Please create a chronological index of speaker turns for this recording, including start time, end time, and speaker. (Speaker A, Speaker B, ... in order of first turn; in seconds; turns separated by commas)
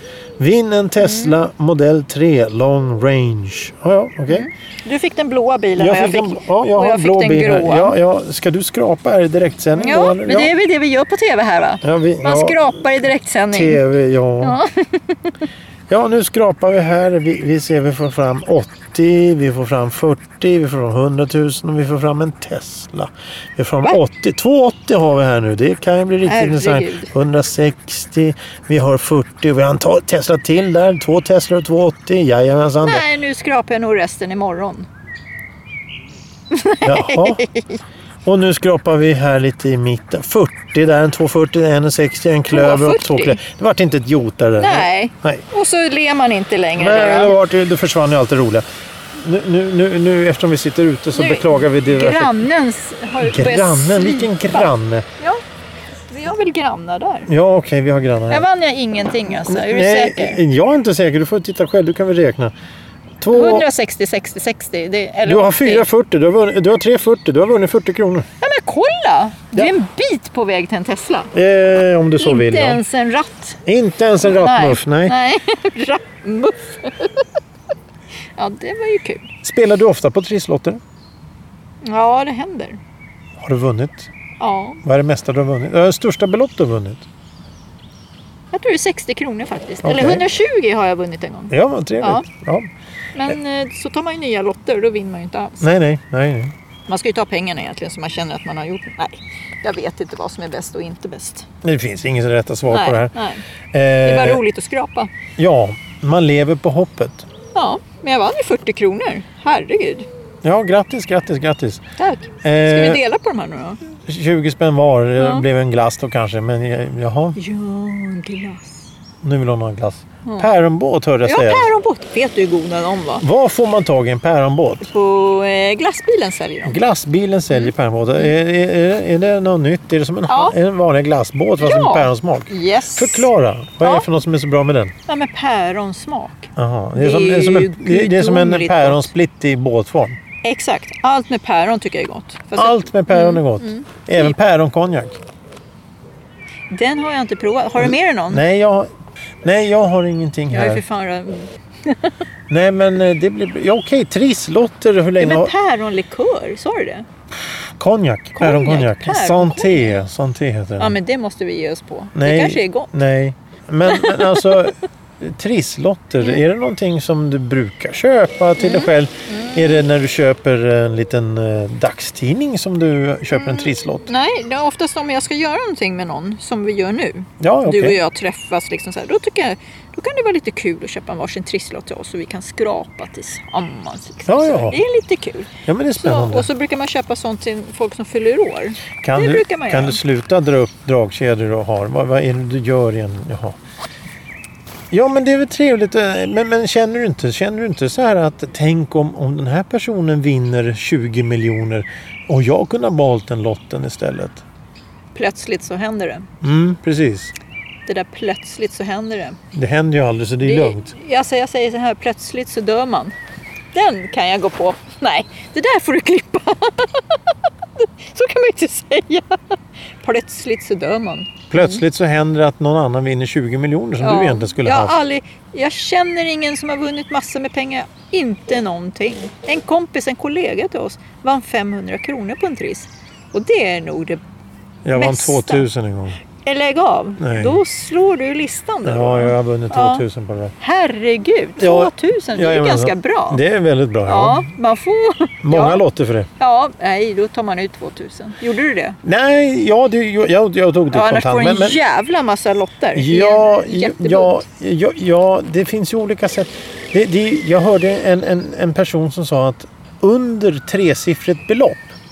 Speaker A: 0.4-4.5, Speaker B: 1.0-1.4, Speaker B: 4.3-8.0, Speaker A: 5.8-10.5, Speaker B: 9.7-13.8, Speaker A: 11.8-12.7, Speaker A: 13.5-14.6, Speaker B: 14.4-15.2, Speaker A: 15.9-33.0, Speaker B: 26.2-27.1, Speaker B: 32.8-34.9, Speaker B: 36.5-37.8, Speaker A: 36.8-37.4, Speaker A: 38.2-45.5, Speaker B: 42.5-43.4, Speaker B: 44.6-47.4, Speaker A: 46.8-52.4, Speaker B: 51.1-55.4, Speaker A: 53.2-55.0, Speaker B: 56.1-57.3, Speaker A: 57.3-58.4, Speaker B: 58.3-60.4, Speaker A: 59.3-62.5, Speaker A: 63.2-63.7, Speaker B: 63.3-65.9, Speaker A: 65.2-68.3, Speaker B: 68.4-71.3, Speaker A: 71.3-72.8, Speaker B: 72.2-73.6, Speaker A: 73.7-75.2, Speaker B: 74.2-77.2, Speaker B: 78.4-79.3, Speaker A: 79.4-80.8, Speaker B: 81.8-82.8, Speaker A: 83.4-84.1, Speaker B: 84.4-84.8, Speaker A: 84.8-87.0, Speaker B: 88.5-92.2, Speaker A: 89.8-90.2, Speaker A: 91.5-92.7, Speaker B: 93.1-95.7, Speaker A: 95.6-96.5, Speaker B: 96.9-101.5, Speaker A: 101.6-103.1, Speaker B: 102.7-103.4, Speaker A: 103.7-104.4, Speaker B: 104.0-105.1, Speaker A: 105.4-107.3, Speaker B: 107.5-110.1, Speaker A: 110.4-111.8, Speaker B: 112.0-113.8, Speaker A: 112.4-113.0, Speaker A: 114.1-117.4, Speaker B: 115.2-115.5, Speaker B: 117.3-118.9, Speaker A: 119.2-121.7, Speaker B: 121.2-123.2, Speaker A: 123.2-124.9, Speaker B: 124.8-126.8, Speaker A: 126.6-134.9, Speaker B: 127.5-128.3, Speaker B: 130.3-130.5, Speaker B: 131.6-133.3, Speaker B: 133.8-134.1, Speaker B: 135.1-139.1, Speaker A: 136.6-140.2, Speaker B: 140.4-144.3, Speaker A: 142.6-145.2, Speaker B: 146.7-148.4, Speaker A: 147.8-148.9, Speaker A: 149.4-150.8, Speaker B: 150.5-152.1, Speaker A: 152.5-155.5, Speaker B: 155.2-157.1, Speaker A: 157.8-160.9, Speaker B: 158.4-160.0, Speaker B: 160.8-162.9, Speaker A: 162.2-174.1, Speaker B: 163.9-164.7, Speaker B: 168.6-169.8, Speaker B: 173.3-190.0, Speaker A: 177.4-178.0, Speaker A: 184.3-184.8, Speaker A: 185.7-186.5, Speaker A: 189.0-193.6, Speaker A: 194.9-204.4, Speaker B: 205.1-206.3, Speaker A: 206.4-207.3, Speaker B: 207.8-209.4, Speaker A: 209.5-210.9, Speaker B: 210.4-213.2, Speaker B: 213.7-221.8, Speaker A: 221.5-225.0, Speaker B: 224.0-234.2, Speaker A: 234.8-236.2, Speaker B: 234.9-235.7, Speaker B: 236.4-240.0, Speaker A: 237.2-237.6, Speaker A: 238.8-240.5, Speaker B: 240.6-243.4, Speaker A: 241.6-244.5, Speaker B: 244.1-245.8, Speaker A: 245.4-246.3, Speaker B: 246.4-249.0, Speaker A: 249.0-251.8, Speaker B: 250.9-254.4, Speaker A: 252.9-261.9